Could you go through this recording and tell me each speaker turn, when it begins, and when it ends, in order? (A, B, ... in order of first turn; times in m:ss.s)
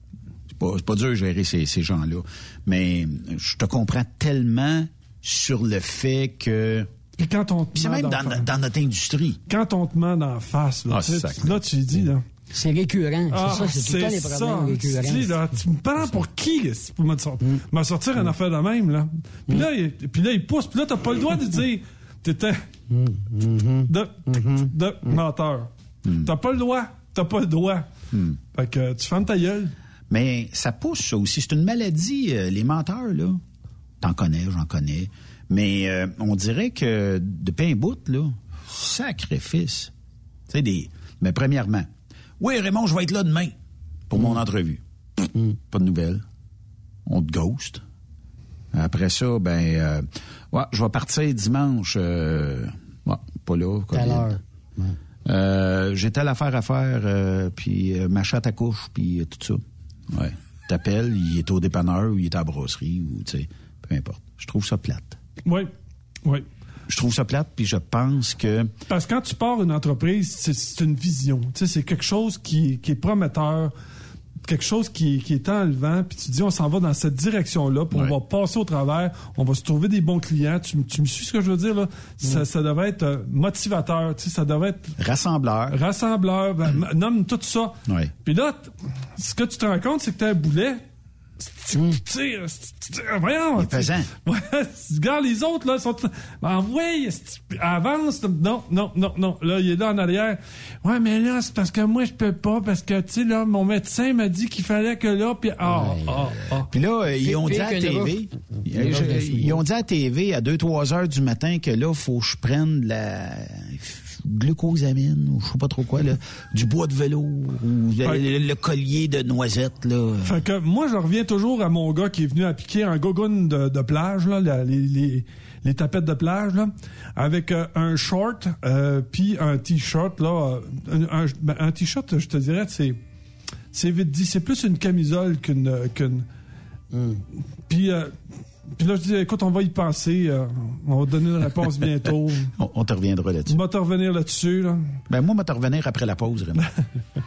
0:00.5-0:06.9 A
0:07.2-0:08.4 B
0:07.8-0:09.4 A
0:09.5-0:12.2 B
0:10.9-0:11.6 A
0:12.5-0:16.2 C
0:13.3-0:22.7 B
0:22.9-0:25.2 C
0:23.9-0:25.7 B
0:26.0-0:26.3 A
0:26.2-0:27.9 B
0:28.1-0:28.4 A
0:28.5-0:29.7 B
0:30.1-0:33.4 A
0:34.0-0:39.9 A
0:40.5-0:41.9 A
0:42.4-0:43.5 A
0:44.1-0:44.8 A
0:45.6-0:46.2 A
0:47.1-0:47.8 A
0:48.7-0:54.4 A
0:53.9-0:55.0 C
0:55.3-1:05.2 A
1:05.4-1:05.7 B
1:06.9-1:08.7 A
1:08.9-1:13.7 B
1:14.4-1:25.0 B
1:25.0-1:25.8 A
1:25.7-1:30.8 B
1:27.9-1:28.1 A
1:31.4-1:46.7 B
1:33.6-1:34.1 A
1:45.6-1:46.6 C
1:46.7-2:00.4 A
1:47.2-1:49.6 C
2:00.2-2:13.0 B
2:13.7-2:16.3 B
2:16.9-2:17.2 C
2:17.7-2:18.2 B
2:18.8-2:22.5 B
2:22.6-2:23.6 A
2:23.5-2:25.0 B
2:25.1-2:26.6 A